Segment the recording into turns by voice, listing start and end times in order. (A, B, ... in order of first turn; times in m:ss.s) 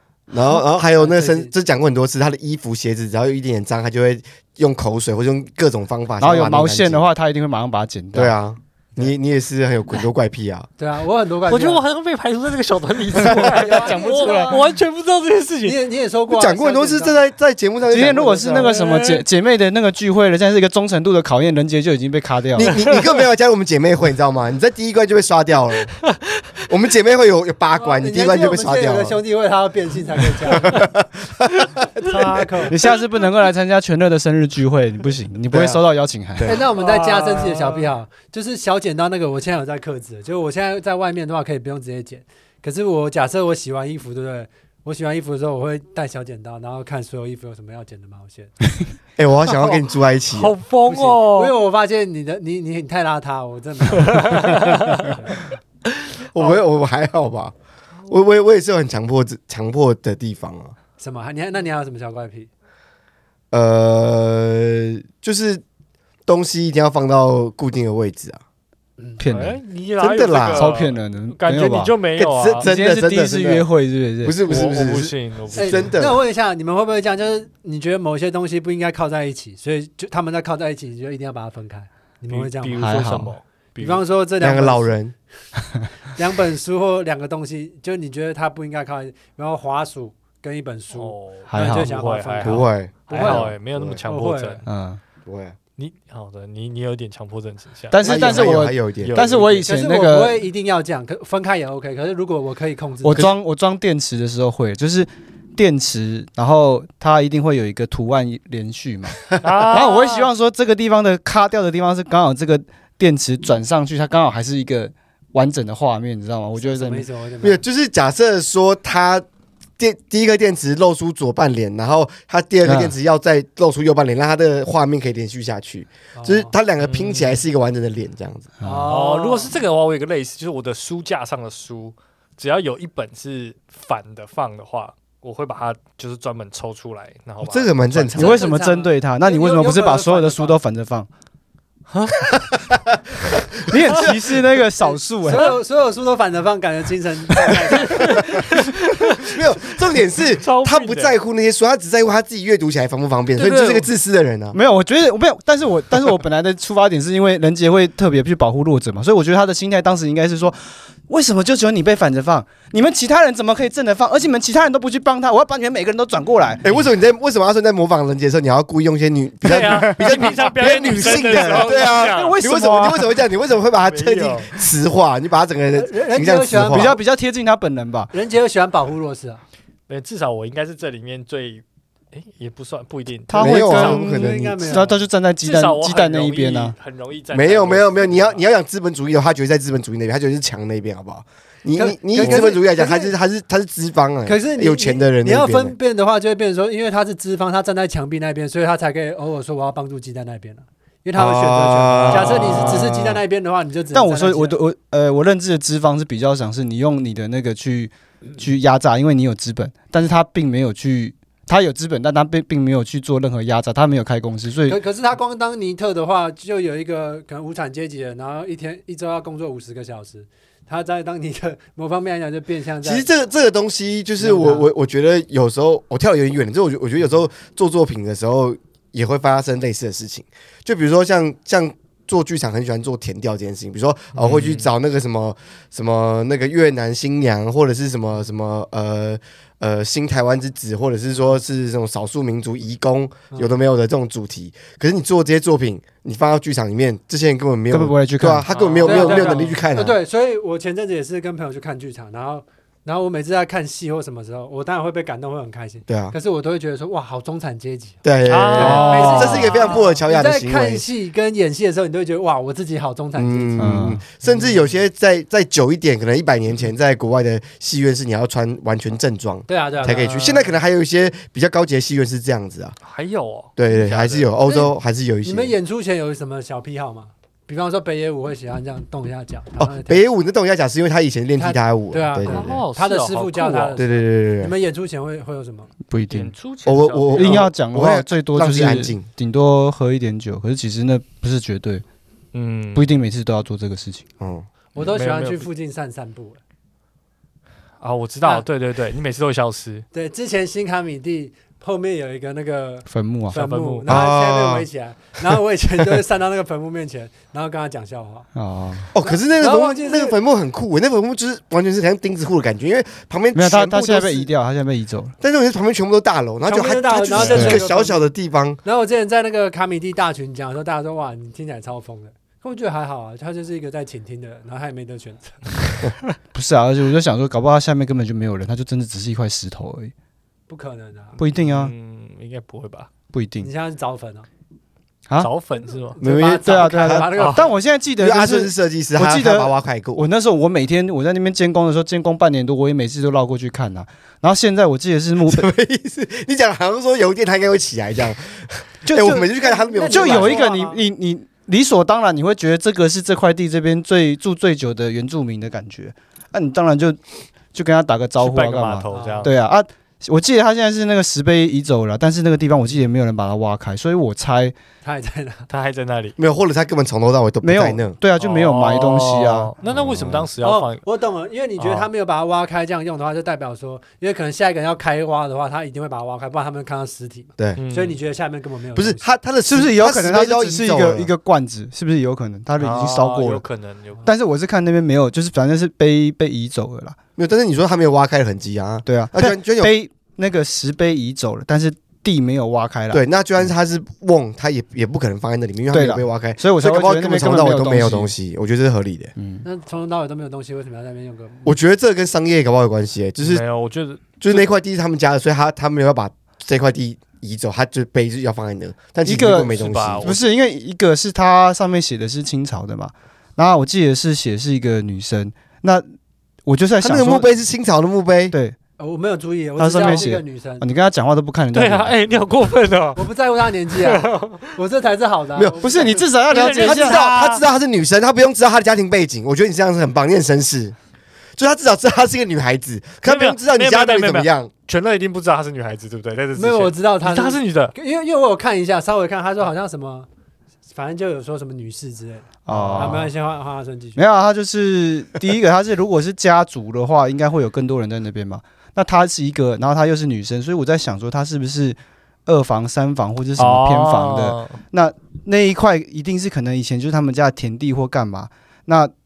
0:00.3-0:07.0 A
0:00.9-0:01.5 B
0:06.2-0:08.4 C
0:08.1-0:10.7 A
0:10.8-0:11.8 B
0:11.5-0:15.8 D
0:13.2-0:14.4 A
0:13.2-0:14.6 B
0:15.6-0:17.2 B
0:16.3-0:18.8 A
0:17.9-0:22.7 C
0:18.4-0:19.0 B
0:18.8-0:19.2 D
0:22.6-0:25.9 A
0:22.6-0:23.1 D
0:26.6-0:29.2 A
0:27.7-0:30.8 B
0:30.4-0:32.4 A
0:32.0-0:32.8 B
0:32.7-0:36.6 C
0:35.5-0:35.8 A
0:36.4-0:36.6 A
0:36.4-0:48.6 B
0:36.8-0:37.9 D
0:49.2-0:50.6 A
0:49.4-0:51.5 D
0:50.9-0:55.5 B
0:54.0-0:55.2 D
0:56.3-0:57.5 A
0:58.1-1:00.7 A
1:01.0-1:02.5 B
1:03.5-1:05.6 A
1:06.3-1:08.4 A
1:09.0-1:09.2 B
1:09.2-1:09.6 C
1:09.2-1:12.6 D
1:10.0-1:10.7 A
1:10.5-1:12.0 C
1:12.2-1:13.6 A
1:12.6-1:14.4 C
1:14.2-1:16.2 A
1:14.4-1:16.0 D
1:15.5-1:23.0 B
1:22.3-1:24.0 D
1:22.8-1:23.4 C
1:23.8-1:25.0 B
1:24.4-1:25.1 A
1:26.1-1:33.5 B
1:30.9-1:34.7 D
1:31.5-1:31.9 C
1:32.4-1:34.0 A
1:34.0-1:34.6 B
1:34.7-1:35.0 C
1:35.3-1:35.6 A
1:35.8-1:38.4 D
1:37.9-1:40.4 C
1:38.0-1:39.6 A
1:39.3-1:43.3 B
1:43.0-1:57.1 C
1:49.4-1:50.3 D
1:56.6-1:57.6 B
1:57.4-1:59.2 A
1:59.8-2:08.5 A
2:02.6-2:03.0 C
2:06.2-2:06.5 B
2:06.8-2:07.4 D
2:08.6-2:08.9 C
2:08.6-2:09.5 B
2:08.9-2:18.2 D
2:17.4-2:18.4 A
2:18.1-2:21.1 C
2:18.2-2:20.6 B
2:21.9-2:22.2 D
2:22.3-2:24.6 A
2:23.7-2:25.6 C
2:24.8-2:28.4 B
2:27.8-2:31.2 D
2:29.2-2:34.6 A
2:33.4-2:33.9 D
2:34.5-2:46.6 C
2:46.6-2:56.9 A
2:49.4-2:52.4 D
2:51.1-2:53.2 C
2:53.8-2:54.5 D
2:55.7-2:57.0 B
2:56.6-2:58.1 C
2:58.1-2:59.4 B
2:59.9-3:04.0 D
3:03.3-3:06.8 C
3:03.4-3:04.8 A
3:04.0-3:05.0 B
3:05.4-3:08.5 D
3:07.3-3:15.8 A
3:11.8-3:13.2 B
3:14.2-3:24.6 B
3:21.2-3:23.2 A
3:22.1-3:23.0 C
3:23.9-3:34.8 C
3:34.7-3:43.1 B
3:42.8-4:10.0 A
3:44.2-3:44.7 B
3:54.1-3:54.7 D
4:03.3-4:03.6 B
4:07.7-4:08.5 C
4:08.5-4:09.6 D
4:08.8-4:18.0 B
4:15.9-4:16.2 A
4:18.0-4:20.8 A
4:18.2-4:19.8 D
4:18.6-4:19.5 C
4:18.6-4:23.7 B
4:23.2-4:32.8 A
4:23.6-4:24.0 C
4:24.2-4:24.7 B
4:29.5-4:30.6 B
4:32.8-4:34.4 D
4:33.6-4:35.6 A
4:34.5-4:34.7 B
4:35.2-4:40.0 B
4:39.6-4:42.6 A
4:41.4-4:45.7 B
4:42.2-4:43.8 D
4:43.8-4:44.5 A
4:45.9-4:46.3 C
4:46.1-4:47.5 D
4:46.7-4:49.1 A
4:47.1-4:51.8 C
4:52.3-4:52.9 D
4:52.8-4:54.0 C
4:54.2-4:54.5 A
4:54.7-4:56.4 B
4:54.8-4:55.5 D
4:57.8-4:59.8 D
4:59.9-5:08.3 B
5:02.9-5:03.4 C
5:03.3-5:04.0 D
5:03.9-5:04.7 A
5:08.4-5:08.9 C
5:08.9-5:14.3 A
5:09.0-5:10.2 B
5:13.3-5:15.1 C
5:15.2-5:18.6 A
5:16.4-5:18.1 B
5:17.2-5:17.6 C
5:18.6-5:25.4 B
5:26.3-5:29.9 C
5:30.5-5:31.2 B
5:31.2-5:31.7 C
5:31.4-5:32.9 D
5:33.1-5:33.5 C
5:33.4-5:34.3 B
5:35.2-5:36.0 D
5:35.9-5:37.5 B
5:36.0-5:37.1 A
5:36.4-5:45.5 C
5:37.2-5:37.4 D
5:38.0-5:40.0 A
5:45.3-5:50.4 A
5:48.8-5:49.3 C
5:49.4-5:50.8 B
5:49.9-5:57.0 C
5:57.5-6:04.6 C
5:58.2-5:59.3 D
5:58.9-5:59.3 B
6:04.8-6:05.5 B
6:05.5-6:06.2 D
6:06.2-6:08.0 A
6:07.4-6:09.5 C
6:08.2-6:10.8 D
6:09.6-6:10.3 A
6:10.4-6:19.1 B
6:17.6-6:18.0 D
6:18.8-6:21.1 A
6:19.5-6:23.4 C
6:22.6-6:24.1 D
6:24.0-6:27.0 C
6:27.2-6:29.7 A
6:28.9-6:33.5 C
6:32.9-6:39.1 A
6:35.7-6:38.1 C
6:39.2-6:39.4 C
6:39.4-6:41.6 B
6:41.4-6:43.4 A
6:43.2-6:44.4 D
6:44.2-6:50.1 A
6:49.0-6:55.8 C
6:49.5-6:50.2 D
6:56.5-6:57.3 C
6:56.8-6:58.4 A
6:58.8-7:00.7 B
6:59.6-7:02.0 C
7:01.5-7:03.0 D
7:03.0-7:06.1 B
7:03.7-7:04.5 D
7:05.4-7:05.7 A
7:05.6-7:07.0 C
7:06.3-7:07.4 D
7:06.4-7:10.8 A
7:11.4-7:14.5 A
7:13.0-7:17.7 D
7:16.4-7:20.1 B
7:20.7-7:24.0 B
7:22.5-7:23.1 C
7:22.5-7:23.1 D
7:24.0-7:38.9 C
7:33.4-7:34.6 D